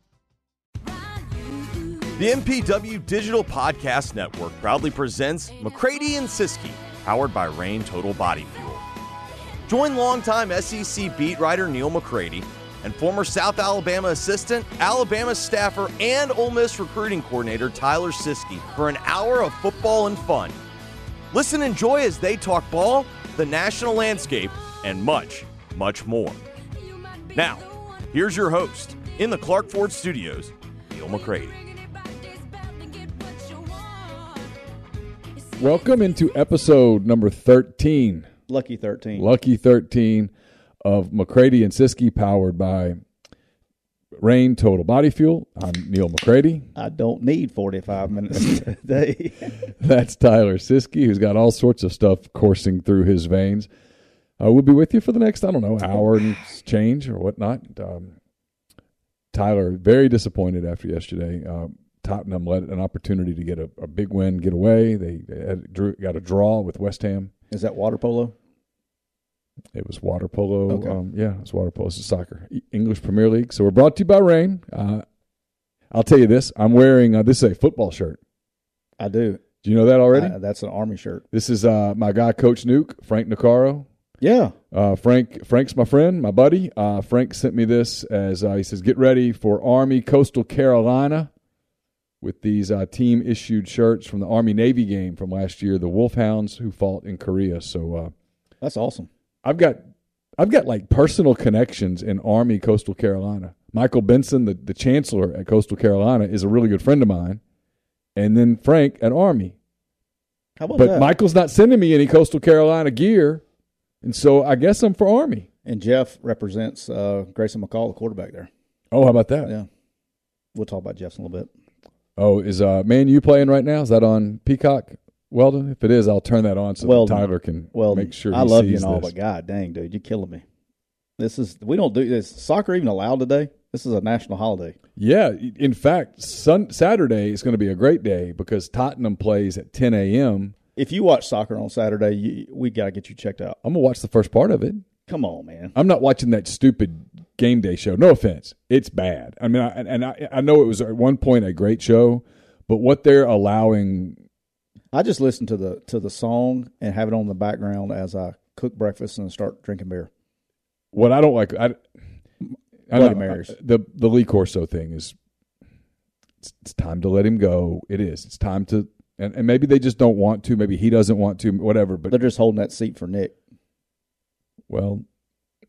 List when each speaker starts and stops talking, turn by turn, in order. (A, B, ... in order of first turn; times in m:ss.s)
0:02.1-0:08.8 A
0:09.7-0:20.6 A
0:21.3-0:26.4 A
0:27.3-0:31.6 A
0:35.6-0:38.3 B
0:38.5-0:39.3 C
0:39.1-0:40.3 B
0:40.8-0:43.0 B
0:44.2-0:46.7 B
0:46.8-0:49.6 C
0:49.8-0:53.7 B
0:54.4-0:58.1 B
0:59.3-1:07.3 B
1:07.5-1:08.3 C
1:09.7-1:15.0 B
1:10.7-1:11.0 C
1:15.9-1:18.2 B
1:19.0-1:19.4 C
1:19.6-1:20.3 B
1:20.1-1:21.2 C
1:21.3-1:23.9 B
1:24.2-1:24.5 C
1:24.7-1:31.3 B
1:32.2-1:38.1 B
1:38.6-1:39.1 C
1:39.4-1:39.8 B
1:40.4-1:47.4 B
1:48.2-1:49.5 B
1:50.6-1:51.1 C
1:50.7-1:53.4 B
1:54.0-1:55.5 B
1:55.6-1:58.5 C
1:58.9-1:59.5 B
2:00.5-2:01.5 C
2:02.2-2:09.1 B
2:06.8-2:10.4 C
2:11.2-2:14.8 C
2:15.0-2:20.5 B
2:20.8-2:23.6 C
2:23.6-2:24.8 B
2:25.1-2:25.7 C
2:25.7-2:34.2 B
2:34.9-2:40.1 C
2:40.9-2:41.8 B
2:42.9-2:45.1 B
2:42.9-2:43.5 C
2:46.4-2:52.2 B
2:52.1-2:53.3 C
2:54.7-2:55.0 B